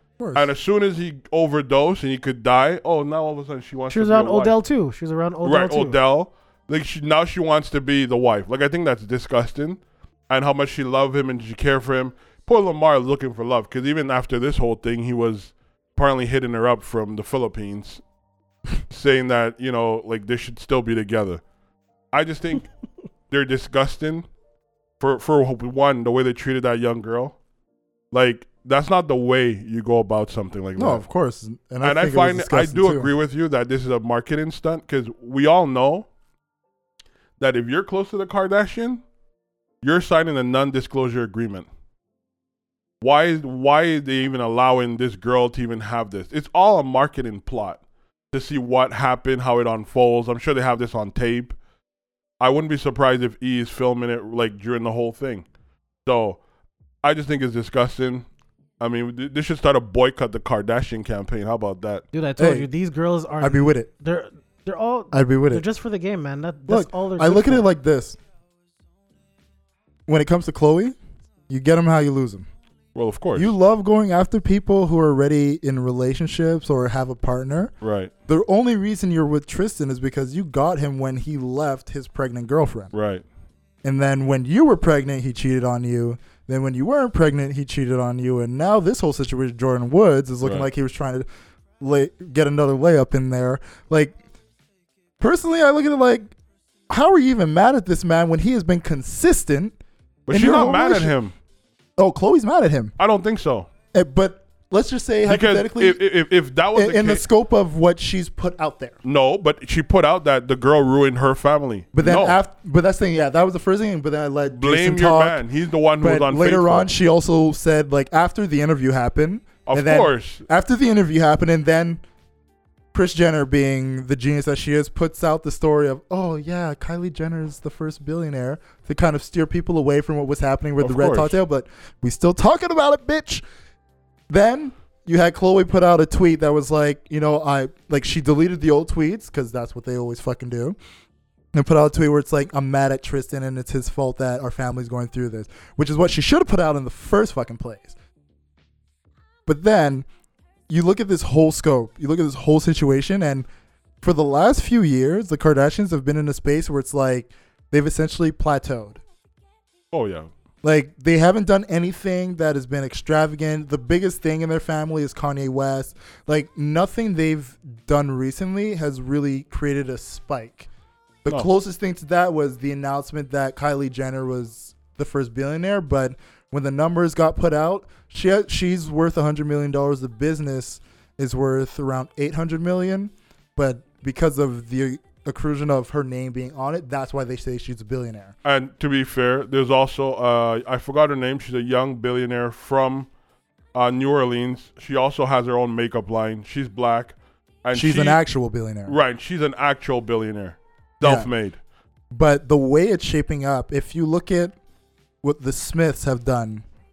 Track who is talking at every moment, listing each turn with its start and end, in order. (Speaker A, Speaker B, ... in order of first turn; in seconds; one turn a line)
Speaker A: 0.2-0.5
Speaker B: 0.3-4.6
Speaker C: 3.9-6.0
Speaker B: 5.4-18.0
Speaker B: 18.9-21.4
Speaker B: 22.1-22.7
Speaker B: 23.3-24.2
Speaker B: 25.0-27.4
Speaker B: 28.1-31.0
Speaker A: 30.8-33.1
Speaker B: 31.8-36.1
Speaker B: 37.4-39.0
Speaker B: 39.8-41.7
Speaker B: 43.0-47.8
Speaker B: 48.3-51.5
Speaker B: 52.4-55.4
Speaker B: 56.0-56.4
Speaker B: 57.0-58.2
Speaker B: 58.8-62.0
Speaker C: 62.1-67.7
Speaker A: 62.4-62.7
Speaker A: 63.4-63.9
Speaker A: 65.1-65.6
Speaker A: 66.7-68.2
Speaker A: 70.1-71.0
Speaker A: 71.5-72.5
Speaker B: 72.9-73.5
Speaker A: 73.3-77.7
Speaker B: 77.8-78.1
Speaker A: 78.3-82.9
Speaker B: 82.9-83.2
Speaker A: 83.8-91.3
Speaker B: 90.4-90.7
Speaker A: 91.8-94.2
Speaker A: 95.2-96.3
Speaker A: 96.9-99.8
Speaker B: 100.3-101.3
Speaker A: 100.3-101.1
Speaker A: 102.0-102.9
Speaker B: 103.0-103.7
Speaker A: 103.9-106.0
Speaker B: 105.3-107.2
Speaker A: 106.7-109.0
Speaker B: 109.0-112.4
Speaker A: 111.9-115.4
Speaker B: 114.5-116.9
Speaker A: 116.0-122.0
Speaker B: 119.7-120.4
Speaker A: 122.9-133.4
Speaker B: 130.8-131.4
Speaker A: 134.3-140.8
Speaker A: 141.5-147.9
Speaker A: 149.4-150.1
Speaker A: 150.7-153.5
Speaker A: 154.0-159.0
Speaker B: 159.9-160.3
Speaker A: 160.6-170.7
Speaker A: 171.2-188.3
Speaker B: 188.4-193.1
Speaker B: 193.7-198.2
Speaker A: 197.7-199.0
Speaker B: 198.9-201.6
Speaker A: 201.0-201.3
Speaker A: 202.1-204.5
Speaker A: 205.2-206.6